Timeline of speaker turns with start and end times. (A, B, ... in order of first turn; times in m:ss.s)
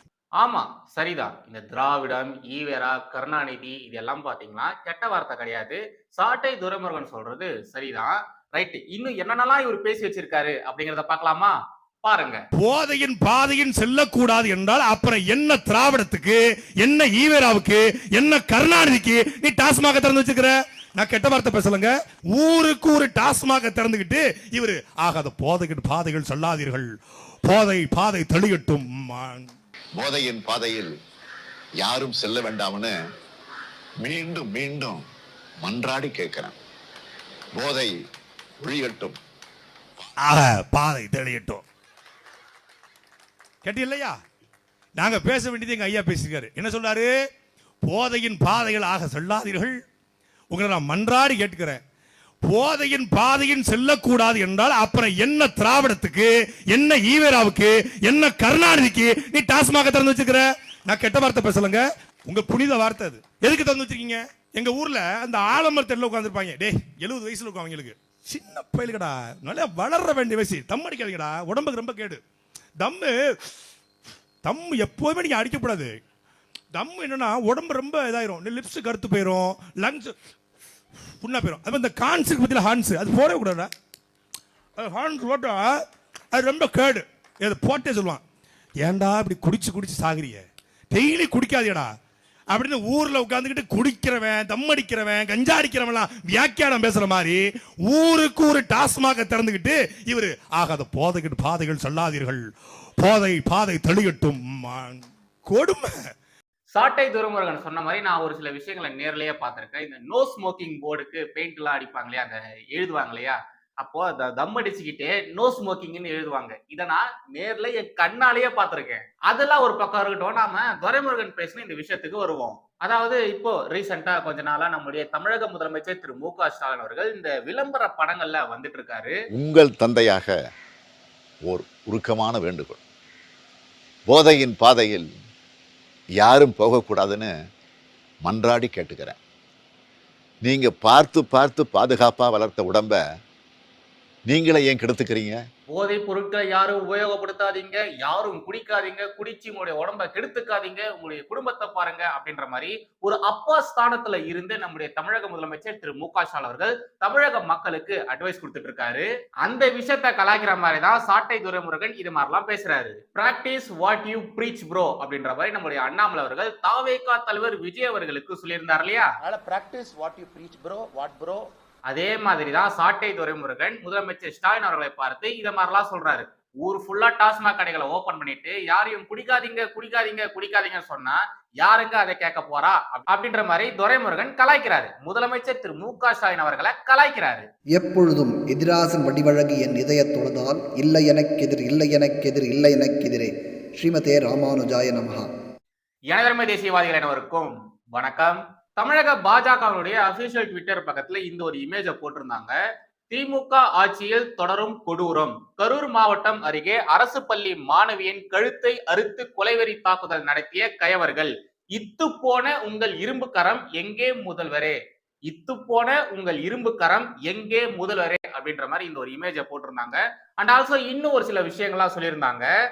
0:00.4-0:12.4 A
0:12.6-0:26.9 B
0:27.4-0:29.5 B
0:30.0-0:30.9 C
0:31.8-0:32.9 C
0:34.0-0:35.0 C
0:35.6-0:36.5 C
0:37.5-0:37.9 C
0:38.6-0:39.2 C
0:40.2-0:41.6 B
0:43.6-0:44.1 B
0:45.0-0:47.1 B
0:47.8-0:49.8 B
0:50.5-0:51.8 B
0:52.5-1:12.2 B
1:12.8-1:13.1 B
1:14.4-1:15.9 B
1:16.7-1:20.1 B
1:21.2-1:23.7 B
1:24.8-1:25.6 B
1:26.3-1:28.2 B
1:28.8-1:31.9 B
1:32.5-1:42.4 B
1:43.0-1:45.9 B
1:46.7-2:09.2 A
2:09.3-2:10.3 C
2:11.4-2:12.8 C
2:14.1-2:15.0 C
2:16.2-2:17.3 C
2:18.2-2:19.2 C
2:20.4-2:23.0 C
2:24.3-2:25.4 C
2:25.7-2:49.1 A
2:49.2-2:51.5 D
2:51.9-3:07.4 A
3:07.8-3:15.2 E
3:16.1-3:22.6 A
3:23.1-3:34.8 A
3:35.3-3:42.5 A